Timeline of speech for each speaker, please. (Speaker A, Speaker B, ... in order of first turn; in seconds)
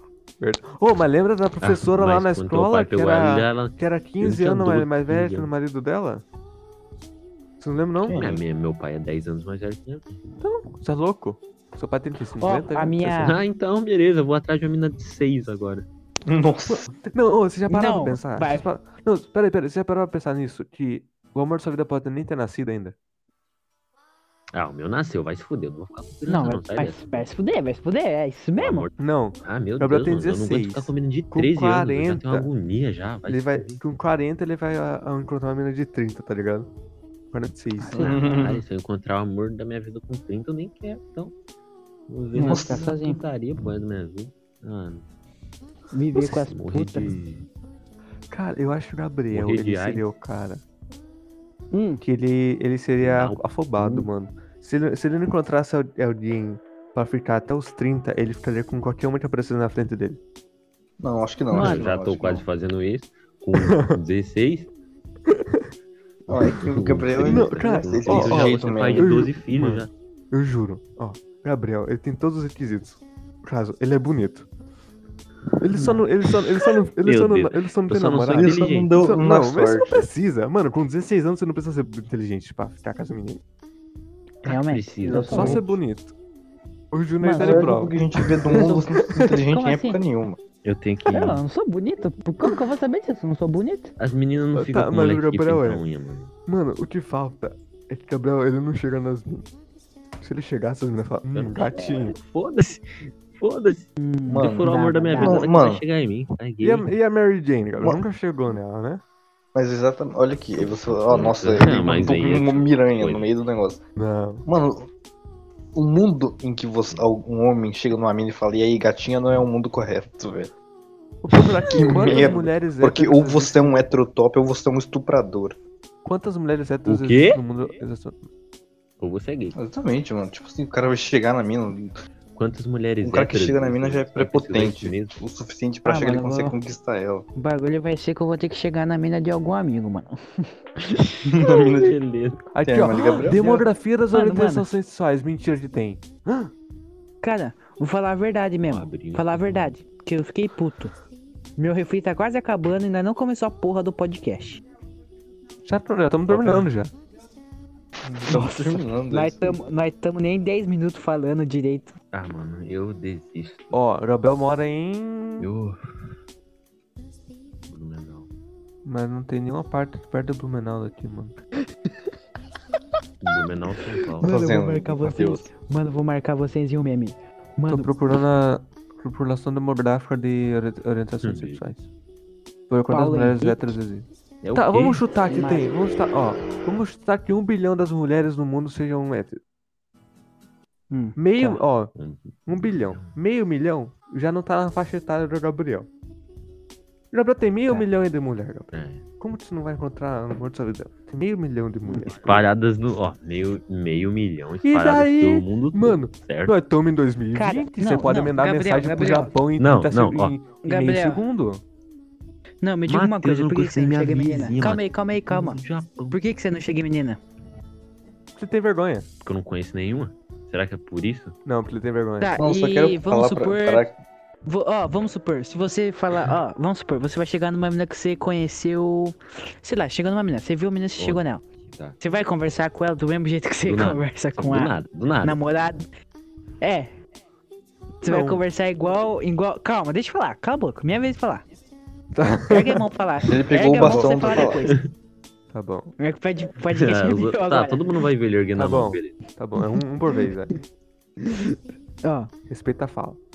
Speaker A: 0.4-6.2, 7.6-8.3, 10.4-13.3, 16.7-22.9, 29.0-32.5, 33.3-36.7, 37.3-38.2, 48.3-50.6, 52.0-60.2, 63.5-64.0, 65.3-65.7, 67.2-74.5, 75.6-83.4, 85.3-86.1, 86.9-89.4, 94.5-95.8, 96.5-99.5, 100.2-102.2, 106.6-109.0, 114.0-114.5, 121.2-123.9, 126.0-128.2, 142.5-146.5, 155.7-156.9, 163.7-165.5, 168.8-171.3, 177.7-181.9, 182.7-189.4, 191.2-191.9, 192.5-195.9, 197.1-202.5, 204.6-211.6, 218.4-219.1, 221.5-222.4, 238.0-238.4, 242.2-242.8, 243.8-244.2, 245.5-245.9, 248.6-250.5, 252.5-253.2
Speaker B: 1.6-5.5, 8.2-10.3, 13.2-15.8, 24.5-27.1, 28.6-28.9, 29.4-33.8, 38.0-41.3, 42.1-45.1, 46.2-47.5, 49.3-50.0, 53.0-54.1, 61.5-64.7, 66.3-69.9, 77.0-79.0, 84.5-85.6, 90.6-91.4, 94.0-96.3, 101.3-106.9, 110.5-113.3, 121.9-122.3, 126.9-127.4, 129.0-129.6, 132.3-135.2, 140.8-142.4, 148.7-149.7, 156.3-156.7, 162.1-163.8, 165.4-166.2, 167.7-168.3, 173.2-174.3, 181.2-181.6, 184.4-185.1, 192.0-193.2, 198.7-199.1, 201.8-206.5, 209.6-210.3, 212.9-216.2, 219.2-221.3, 231.0-232.0, 233.7-235.4, 244.5-244.8, 246.7-249.2
Speaker C: 8.0-8.4, 16.3-16.9, 37.9-38.6, 42.4-42.8, 61.0-62.4, 66.3-69.1, 78.3-80.1, 85.1-85.7, 87.4-90.4, 104.3-105.8, 109.5-113.8, 114.5-114.9, 115.8-120.5, 121.4-125.6, 129.6-132.0, 133.0-137.3, 141.2-142.0, 142.6-143.6, 158.1-159.6, 174.2-175.5, 222.4-224.0, 243.2-244.7
Speaker D: 12.4-13.4, 17.7-18.7, 26.3-28.9, 37.8-38.2, 42.4-43.2, 45.9-47.1, 51.7-52.0, 61.5-61.9, 75.8-76.0, 84.4-85.6, 87.2-87.8, 88.5-88.9, 89.4-90.0, 91.1-93.9, 104.0-105.5, 135.9-136.6, 137.4-140.5, 144.1-144.7, 147.2-150.9, 151.6-154.6, 158.2-161.9, 174.2-177.9, 182.9-183.6, 185.3-185.7, 190.9-191.6, 207.3-209.3, 210.6-211.2, 212.6-215.6, 216.1-217.2, 222.2-223.8, 224.5-231.4, 232.0-235.9, 236.6-236.9, 238.0-241.4, 242.5-244.8, 246.0-247.9, 252.0-252.3